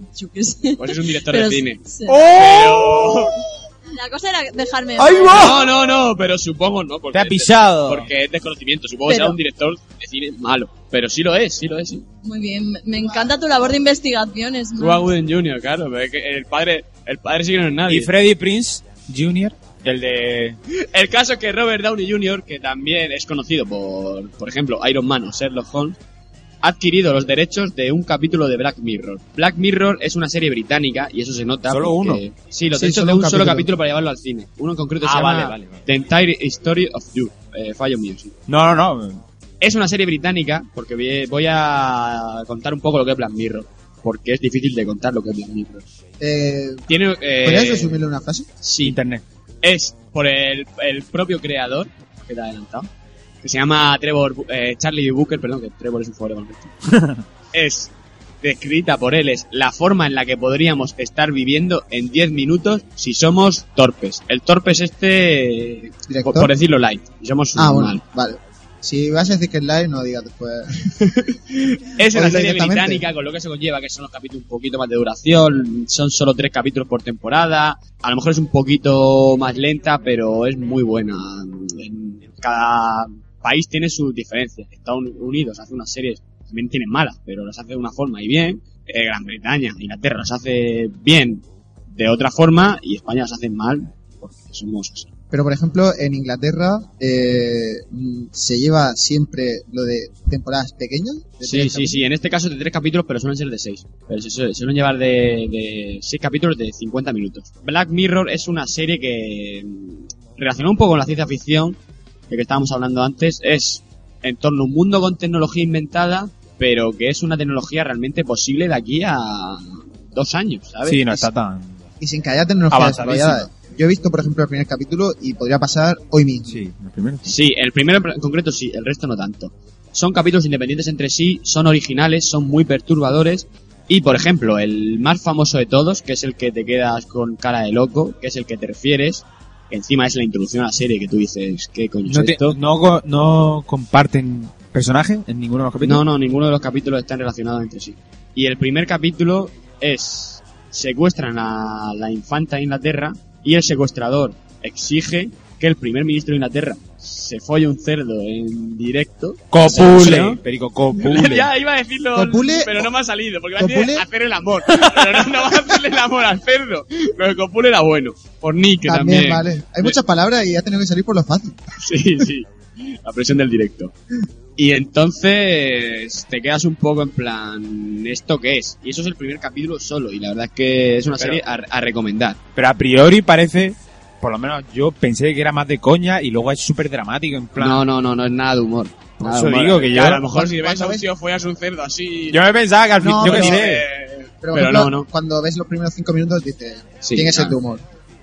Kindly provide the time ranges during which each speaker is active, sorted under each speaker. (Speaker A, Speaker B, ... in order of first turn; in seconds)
Speaker A: 0.1-2.2, 3.9-5.6, 9.1-9.4, 12.2-15.1
Speaker B: 0.8-3.4, 5.3-12.0, 14.8-18.1, 20.7-25.9, 26.6-38.4, 39.6-45.9, 46.9-48.0, 48.6-49.0, 49.6-52.9, 53.4-56.7, 57.5-57.9, 58.4-68.0, 71.0-95.1, 101.4-111.8, 112.3-121.2, 127.2-142.6, 145.8-160.4, 160.9-170.0, 171.8-173.9, 174.6-182.4, 187.6-192.4, 193.1-195.1, 197.0-197.6
Speaker C: 2.1-3.1, 5.0-5.7, 7.1-8.1, 17.9-20.6, 31.7-32.2, 35.0-35.8, 38.5-39.2, 48.8-49.2, 56.9-57.2, 120.8-121.8, 122.7-123.5, 126.5-127.4, 142.1-146.0, 159.5-161.5, 182.6-187.8, 189.2-190.2, 192.3-193.8
Speaker D: 32.7-33.7, 46.2-46.9, 47.4-48.5, 66.1-66.5, 67.5-70.8, 72.0-73.0, 95.3-102.0, 122.0-126.7, 162.1-162.9, 163.6-164.1, 168.8-171.6, 190.2-191.1, 193.0-193.7, 194.4-197.8